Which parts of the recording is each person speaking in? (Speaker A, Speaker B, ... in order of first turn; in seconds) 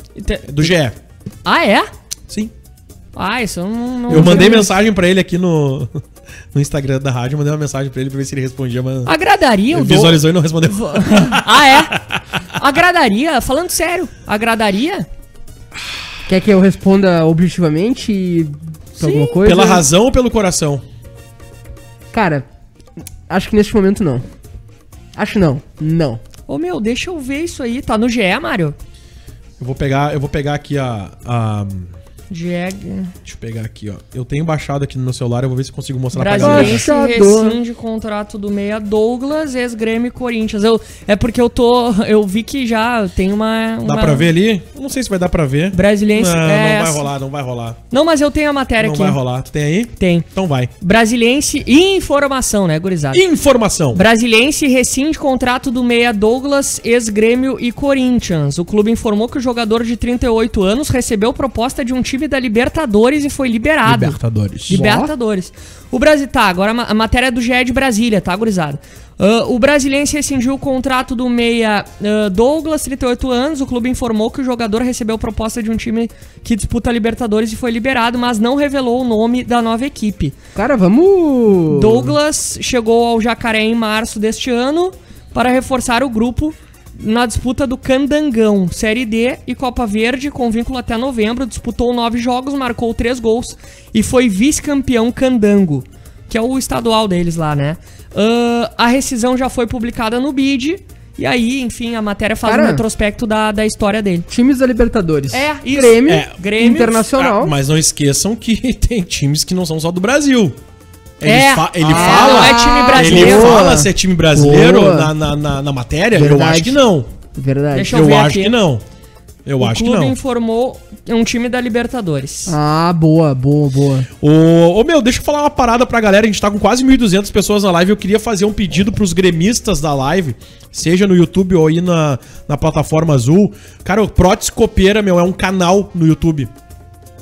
Speaker A: 0.2-0.7, 1.4-1.9, 3.1-4.7, 9.1-11.9, 12.5-15.1, 18.9-19.4, 26.5-28.8, 32.3-33.1, 36.1-44.3, 45.7-47.1, 47.9-49.2, 50.0-50.3, 50.8-53.2, 53.9-80.3, 81.7-104.3, 105.3-107.1, 111.2-113.7, 117.7-118.6, 119.6-122.6
Speaker B: 0.4-1.0, 4.1-6.0, 6.5-9.1, 9.7-12.2, 19.4-20.8, 29.6-31.9, 33.2-36.9, 43.9-47.8, 48.8-50.7, 53.1-54.0, 63.9-64.9, 106.1-106.4, 107.1-110.6, 111.2-117.1, 117.9-118.8, 119.5-120.2, 124.2-136.5
Speaker C: 4.1-4.7, 16.3-19.9, 22.1-22.4, 23.3-24.2, 25.2-26.2, 36.4-37.6, 64.7-65.1, 80.5-82.2, 102.4-102.8, 104.3-107.5, 111.8-115.1, 116.1-116.8, 117.3-118.0, 122.5-124.1